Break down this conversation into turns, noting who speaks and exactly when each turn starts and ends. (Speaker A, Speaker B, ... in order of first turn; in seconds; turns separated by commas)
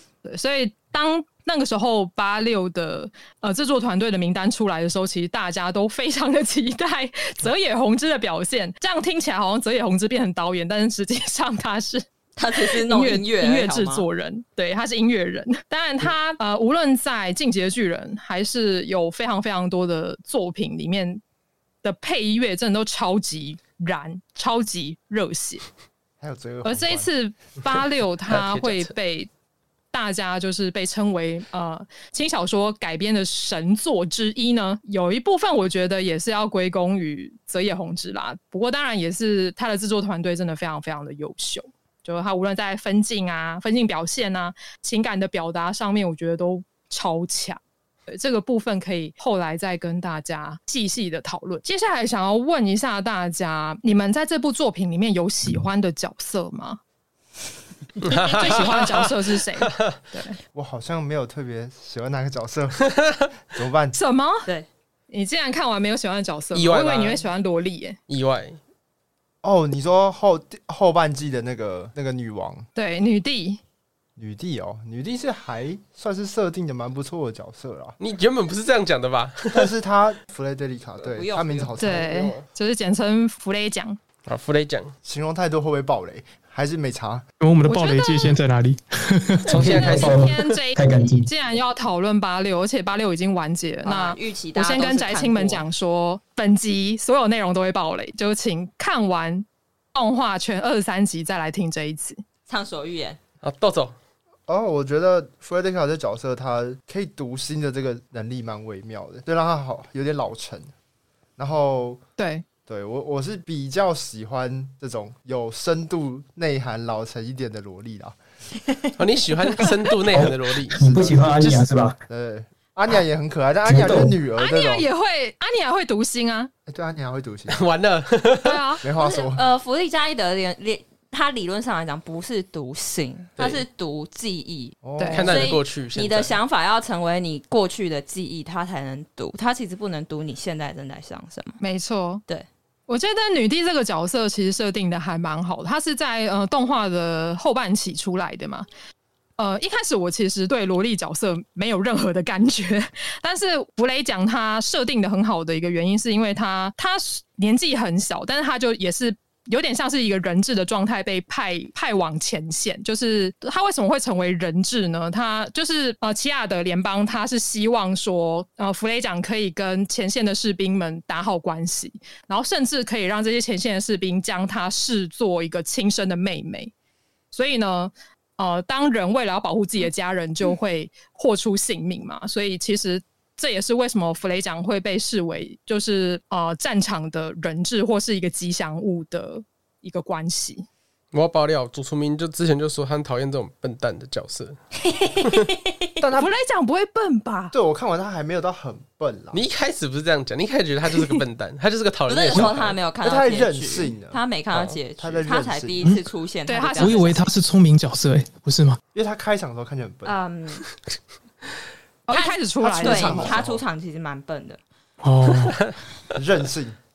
Speaker A: 0.2-21.2, Speaker B: 12.4-14.1, Speaker A: 21.8-25.6, Speaker C: 26.2-27.1, Speaker A: 26.6-29.3, Speaker D: 28.3-28.9, Speaker A: 29.9-56.8, Speaker D: 58.0-60.0, Speaker A: 58.0-60.4, Speaker B: 58.3-58.8, Speaker C: 60.5-64.0, Speaker A: 64.0-64.5, Speaker A: 65.1-68.0, Speaker D: 66.5-67.2, Speaker D: 68.1-68.6, Speaker C: 69.4-72.7, Speaker A: 72.8-73.6, Speaker C: 74.2-78.0, Speaker D: 78.0-79.7, Speaker C: 79.5-82.4, Speaker B: 81.0-81.8, Speaker A: 81.8-84.0, Speaker D: 84.3-84.9, Speaker C: 85.0-87.2, Speaker E: 87.4-89.7, Speaker A: 87.7-88.4, Speaker D: 89.5-90.3, Speaker F: 89.5-91.3, Speaker A: 89.6-102.2, Speaker B: 93.8-95.7, Speaker B: 102.5-103.2, Speaker D: 103.4-103.9, Speaker C: 104.5-110.7, Speaker C: 111.4-112.0, Speaker A: 112.2-112.4, Speaker C: 112.7-118.2, Speaker D: 119.0-120.8, Speaker F: 120.1-122.0, Speaker C: 120.8-121.4, Speaker C: 122.1-124.9, Speaker F: 123.7-124.2, Speaker A: 124.4-126.5, Speaker C: 126.7-127.6, Speaker D: 127.5-128.6, Speaker A: 128.4-128.8, Speaker C: 128.8-129.4, Speaker B: 128.9-141.6, Speaker D: 133.4-133.6, Speaker C: 134.8-135.5, Speaker A: 135.0-135.3, Speaker D: 135.1-136.4, Speaker A: 141.6-142.2, Speaker A: 142.9-148.7, Speaker A: 149.4-176.7, Speaker A: 177.3-190.7, Speaker D: 191.1-194.6, Speaker B: 194.9-195.4, Speaker C: 196.0-196.3, Speaker A: 196.2-197.5, Speaker C: 197.5-199.4, Speaker D: 199.3-202.8, Speaker B: 202.1-207.2, Speaker C: 203.0-204.2, Speaker D: 204.5-204.8, Speaker C: 205.0-205.9, Speaker A: 206.5-207.3, Speaker E: 206.8-208.8, Speaker C: 208.9-210.2, Speaker B: 210.1-210.6, Speaker A: 212.1-213.3, Speaker B: 212.1-214.6, Speaker C: 212.6-213.6, Speaker E: 215.0-215.7, Speaker D: 215.4-215.7, Speaker C: 216.2-216.8